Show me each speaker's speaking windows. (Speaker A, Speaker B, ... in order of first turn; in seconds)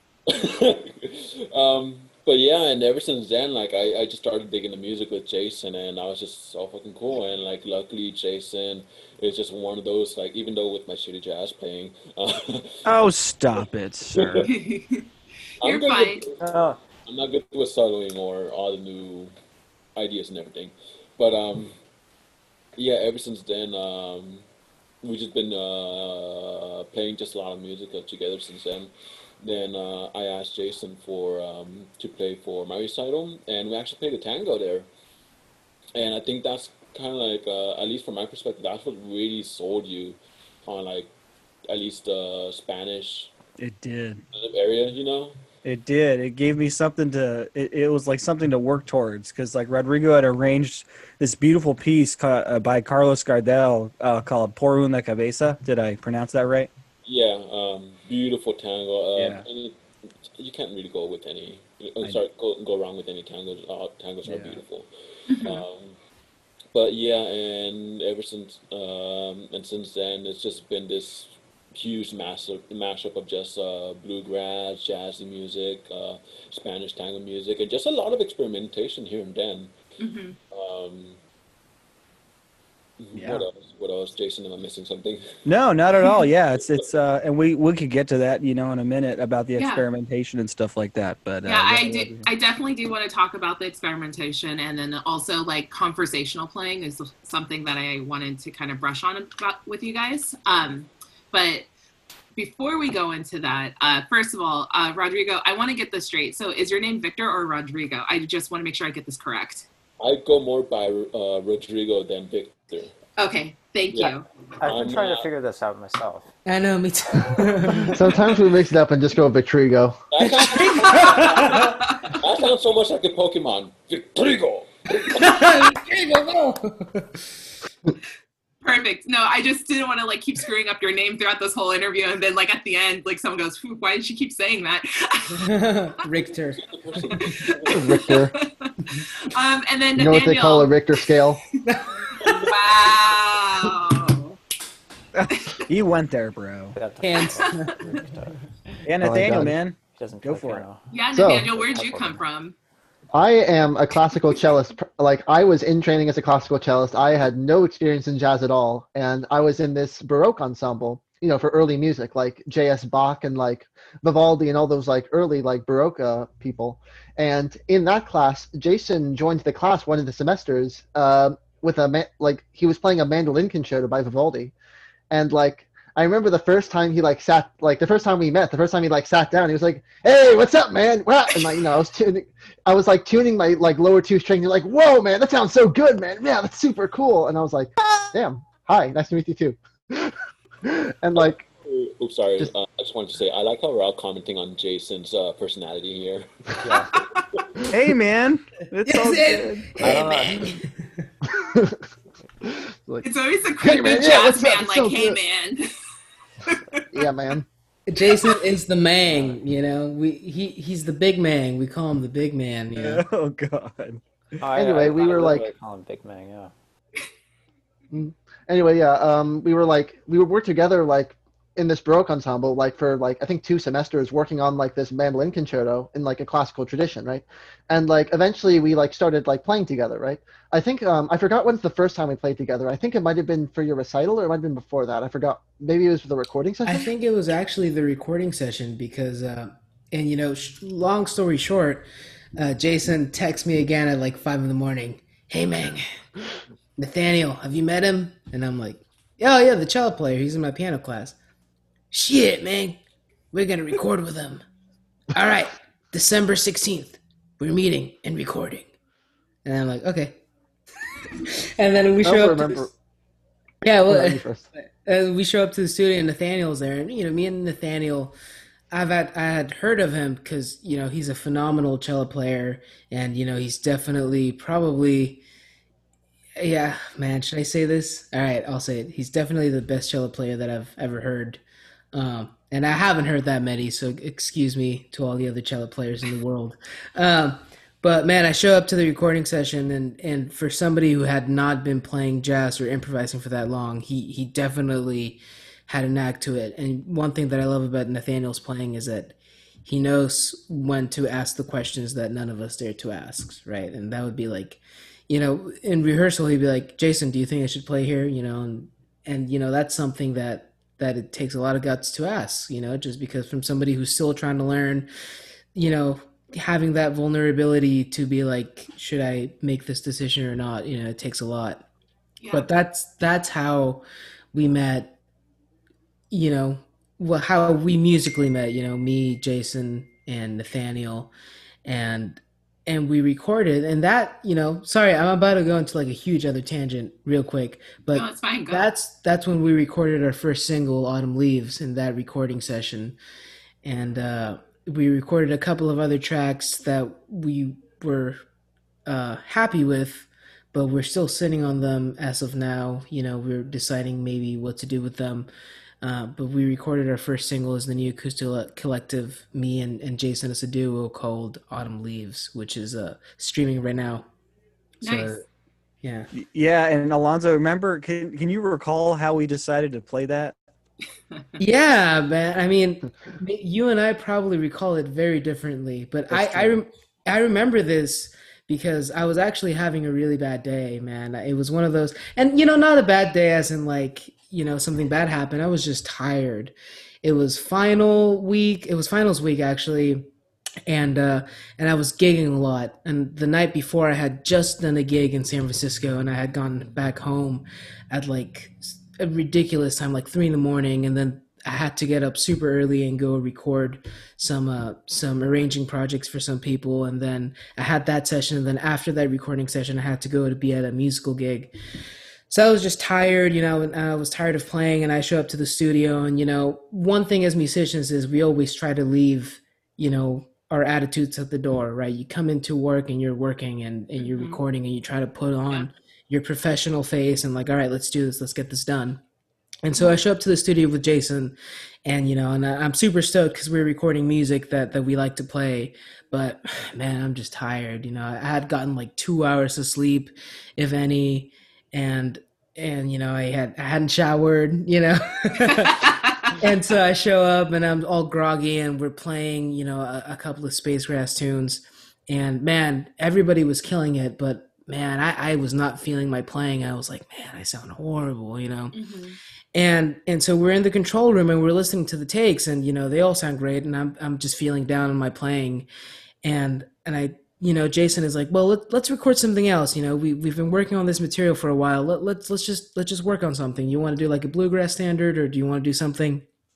Speaker A: 0.3-12.9, 13.6-14.5, 15.6-16.5, 17.0-19.3, 20.0-21.8, 22.8-24.4, 25.0-34.9, 36.0-41.1, 41.7-43.3, 44.3-45.4, 57.0-64.9, 65.4-66.0, 66.7-79.7, 80.5-81.2, 83.0-85.3, 110.0-113.0, 113.9-115.2, 120.1-125.3, 136.7-138.0, 191.2-196.3
Speaker B: 12.8-14.5, 43.6-44.2, 45.6-56.7, 59.2-59.5, 64.2-64.6, 83.1-83.5, 85.5-92.3, 145.1-146.8, 148.8-150.7, 197.7-199.7, 212.7-214.0, 366.1-370.4
Speaker C: 14.5-15.1, 15.6-16.2, 65.3-65.6, 80.0-80.4, 89.6-89.8, 91.4-101.7, 102.4-109.7, 113.2-114.3, 120.8-122.2, 128.6-135.5, 137.2-140.7, 142.2-144.4, 145.3-145.6, 147.4-147.8, 150.9-152.6, 196.9-197.2, 203.0-205.7, 206.5-206.8, 208.0-208.4, 322.2-322.5, 337.9-338.7, 364.8-365.2, 424.0-424.4, 445.4-446.4, 458.7-459.2
Speaker D: 16.4-16.8, 114.6-116.3, 146.8-148.4, 149.1-152.2, 196.6-196.9, 199.8-200.6, 209.1-209.4, 214.4-216.5
Speaker E: 116.5-118.2, 120.2-121.7, 125.0-127.2, 135.4-137.2, 141.7-142.4, 147.0-147.8, 198.9-201.1, 207.9-213.0, 236.7-245.8, 246.8-251.2, 251.9-252.8, 253.3-254.4, 255.1-258.7, 259.4-260.2, 261.2-262.7, 263.6-268.1, 268.7-275.2, 276.4-281.4, 281.9-314.9, 315.6-321.7, 322.3-325.0, 326.1-331.1, 331.6-343.0, 343.6-348.2, 348.9-355.3, 355.8-364.1, 364.8-365.2, 365.8-366.1, 371.4-390.1, 390.7-411.5, 412.3-429.0, 429.6-458.8, 459.5-465.7, 466.2-476.3
Speaker F: 117.9-120.0, 137.7-138.3, 140.0-141.4, 151.1-151.5, 153.1-174.5, 175.1-191.4, 201.4-201.8, 202.4-203.1, 203.6-205.2, 206.9-207.5, 214.6-215.5, 217.9-236.9, 262.0-262.7, 263.9-264.5, 376.2-376.5